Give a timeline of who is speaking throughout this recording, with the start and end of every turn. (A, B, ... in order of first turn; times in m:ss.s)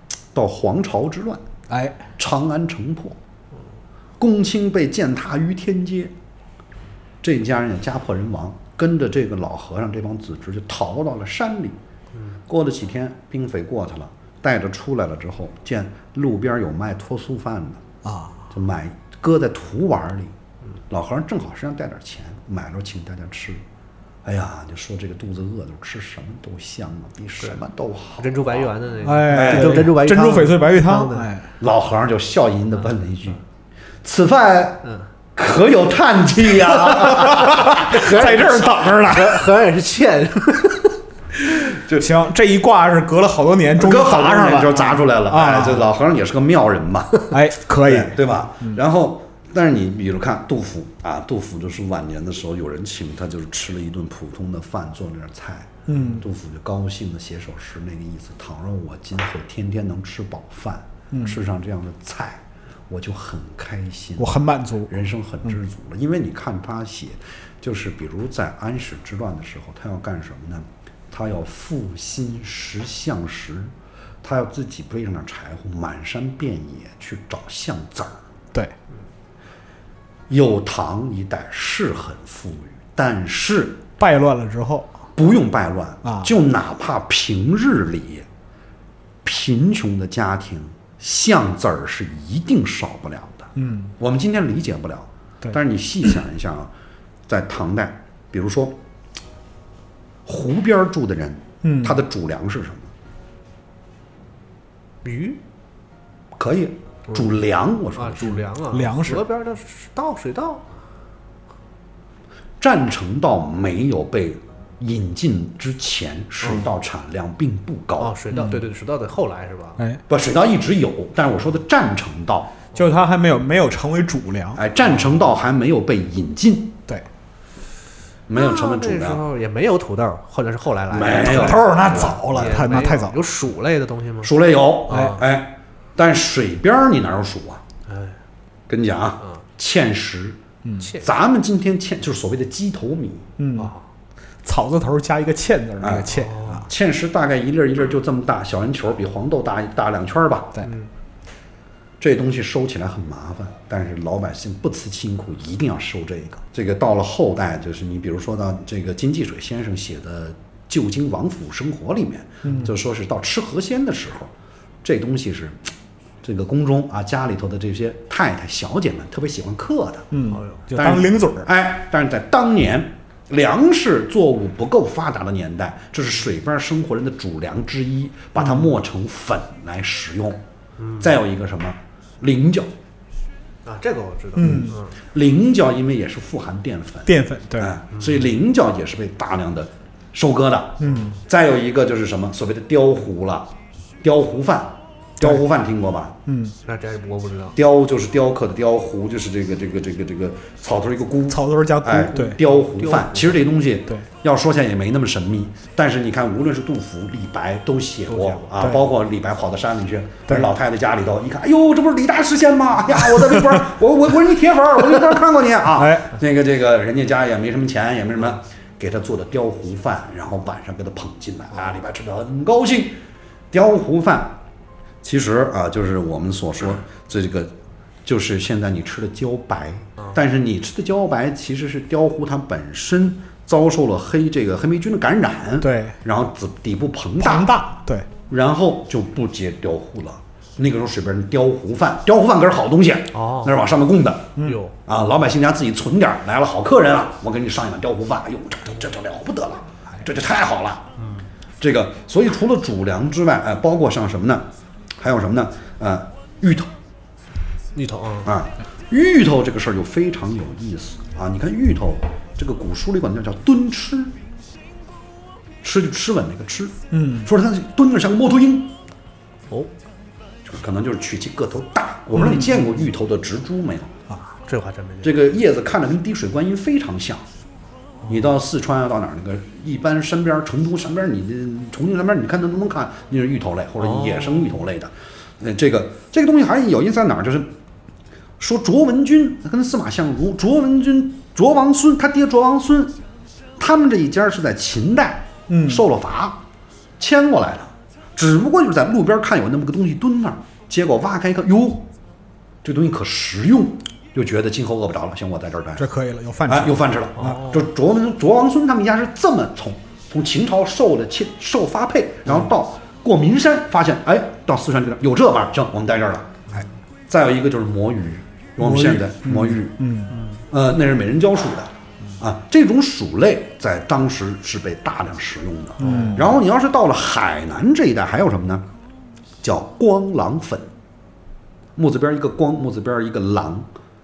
0:00.3-0:01.4 A
0:01.7-0:02.0 B
0:02.2-0:03.2 A
0:04.2-0:06.1 A
0:07.2-0:11.8 A
0:12.5-0:17.8 A
0:18.0-0:18.4 B
0:18.5-0:20.3 A
0:20.9-0:23.6 A
0:24.2-0:28.5 A
0:28.2-0:31.3 C
0:29.0-0:31.5 B
0:29.3-0:29.9 A
0:31.6-0:33.4 A
0:34.0-0:37.9 A
0:36.8-0:39.5 B
0:37.7-0:41.0 C
0:41.4-0:45.9 B
0:41.7-0:42.1 A
0:43.8-1:13.7 A
0:47.3-0:48.8 B
0:55.9-0:56.2 B
1:01.1-1:01.4 B
1:04.2-1:04.9 B
1:14.2-1:18.2 A
1:20.3-1:23.8 A
1:24.0-1:25.0 B
1:25.2-1:28.2 A
1:26.0-1:26.3 B
1:29.2-1:36.7 A
1:33.6-1:33.9 B
1:37.3-1:38.8 A
1:40.2-1:42.9 A
1:41.6-1:42.0 B
1:45.0-1:45.4 C
1:46.4-1:48.4 A
1:48.0-1:50.6 C
1:48.7-1:49.2 B
1:52.6-1:58.2 A
1:58.0-1:59.8 C
1:58.3-1:58.6 B
2:00.1-2:02.5 A
2:02.7-2:04.6 B
2:04.5-2:06.8 A
2:04.8-2:05.2 C
2:08.3-2:09.2 A
2:08.4-2:14.4 C
2:10.9-2:11.7 A
2:11.2-2:13.2 B
2:14.2-2:17.6 A
2:14.9-2:15.2 C
2:17.9-2:18.2 C
2:18.7-2:20.4 A
2:20.8-2:21.1 C
2:21.0-2:23.3 A
2:23.4-2:23.7 B
2:23.6-2:23.8 C
2:24.4-2:26.6 B
2:25.8-2:30.6 A
2:26.1-2:26.7 C
2:30.6-2:30.9 C
2:32.0-2:50.1 A
2:42.4-2:42.7 B
2:50.1-2:51.5 B
2:50.3-2:50.6 C
2:50.7-3:00.4 A
3:00.8-3:01.1 C
3:01.0-3:02.7 A
3:03.6-3:04.9 C
3:04.4-3:04.8 B
3:04.4-3:16.2 A
3:07.0-3:07.7 B
3:10.8-3:11.2 B
3:16.3-3:16.5 B
3:16.6-3:17.6 C
3:17.6-3:43.0 A
3:21.3-3:23.2 B
3:28.1-3:28.5 C
3:28.6-3:28.8 B
3:35.8-3:36.1 B
3:43.5-3:44.4 A
3:45.0-3:47.5 A
3:48.0-3:57.6 A
3:55.6-3:56.0 B
3:57.2-3:58.1 B
3:58.3-4:10.9 A
4:03.1-4:03.6 C
4:04.4-4:04.7 C
4:11.0-4:11.2 C
4:11.6-4:16.7 A
4:17.7-4:18.3 C
4:18.2-4:24.2 A
4:25.6-4:28.7 A
4:26.9-4:27.3 B
4:30.4-4:34.0 A
4:32.2-4:32.6 B
4:34.4-4:35.1 C
4:35.0-4:37.2 A
4:38.0-4:38.3 C
4:38.1-4:47.5 A
4:43.8-4:44.6 C
4:48.4-4:53.0 A
4:53.6-4:56.4 A
4:55.5-4:55.8 B
4:57.0-5:01.9 A
5:02.6-5:05.9 A
5:05.8-5:07.4 B
5:06.5-5:16.4 A
5:07.2-5:07.6 C
5:17.1-5:19.9 A
5:18.6-5:20.2 B
5:20.1-5:20.4 C
5:20.5-5:28.7 A
5:25.8-5:26.3 B
5:25.8-5:26.2 C
5:29.4-5:30.7 A
5:31.8-5:33.7 A